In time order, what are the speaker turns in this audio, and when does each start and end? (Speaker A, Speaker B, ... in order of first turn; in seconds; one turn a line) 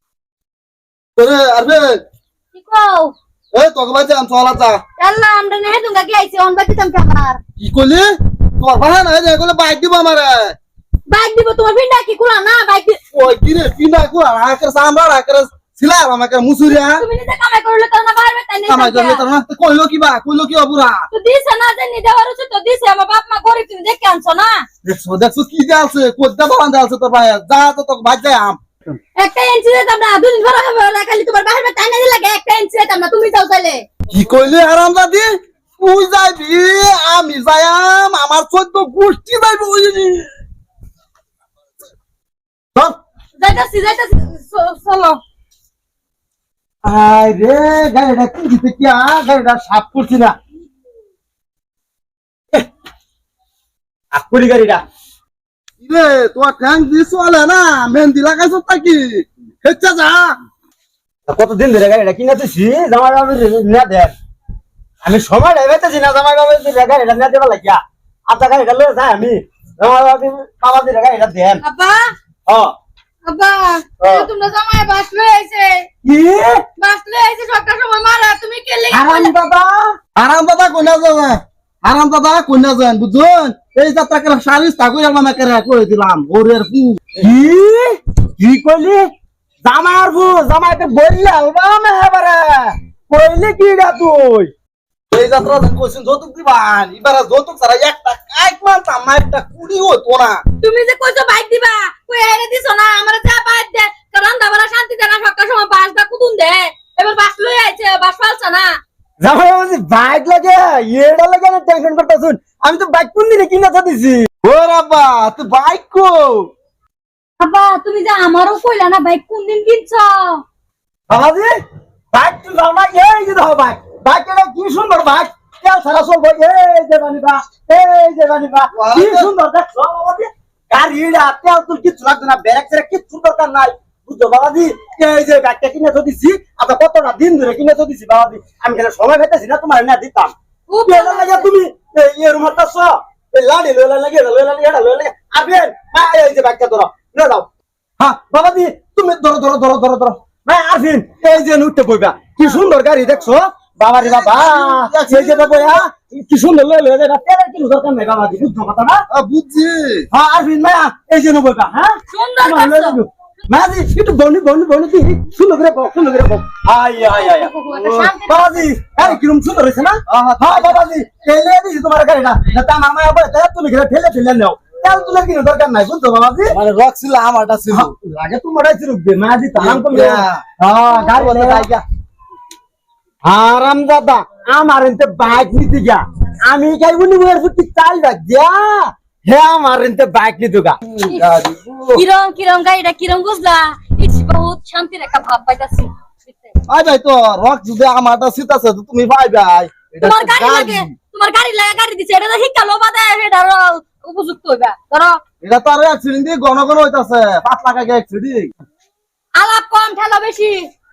Speaker A: 1.2-2.0
Speaker B: 2.5-3.1
Speaker A: 3.5-4.8
Speaker B: 5.0-7.4
Speaker A: 7.6-10.6
Speaker B: 11.1-13.0
Speaker A: 13.1-17.0
Speaker B: 16.7-19.2
Speaker A: 18.7-21.1
Speaker B: 21.1-24.6
Speaker A: 24.8-28.6
Speaker B: 29.2-33.8
Speaker A: 34.1-40.3
Speaker B: 43.4-45.2
Speaker C: 46.9-50.4
Speaker C: 54.1-54.8
Speaker A: 55.8-60.4
Speaker C: 61.3-64.1
Speaker C: 65.0-71.6
Speaker B: 71.6-72.0
Speaker C: 72.5-72.7
Speaker B: 73.2-75.9
Speaker C: 74.0-74.3
Speaker C: 76.0-76.7
Speaker B: 76.8-79.3
Speaker C: 78.9-80.0
Speaker A: 80.2-87.2
Speaker C: 87.2-89.1
Speaker C: 89.7-94.5
Speaker A: 95.1-100.4
Speaker B: 100.6-108.7
Speaker C: 109.2-114.3
Speaker A: 114.4-116.5
Speaker B: 117.4-120.4
Speaker C: 121.1-121.5
Speaker C: 122.1-140.3
Speaker A: 128.7-129.3
Speaker B: 140.7-141.5
Speaker C: 140.9-147.5
Speaker C: 148.0-159.0
Speaker A: 154.0-155.8
Speaker A: 159.1-160.1
Speaker C: 160.1-167.5
Speaker B: 162.1-163.0
Speaker B: 167.0-168.7
Speaker A: 167.7-168.2
Speaker C: 168.2-176.6
Speaker A: 170.1-170.8
Speaker A: 176.5-177.9
Speaker C: 177.7-181.8
Speaker A: 179.6-180.4
Speaker A: 181.1-181.7
Speaker C: 183.2-190.8
Speaker A: 191.1-192.0
Speaker B: 191.9-196.5
Speaker A: 196.7-200.9
Speaker B: 200.0-205.2
Speaker A: 205.4-208.5
Speaker B: 209.4-210.6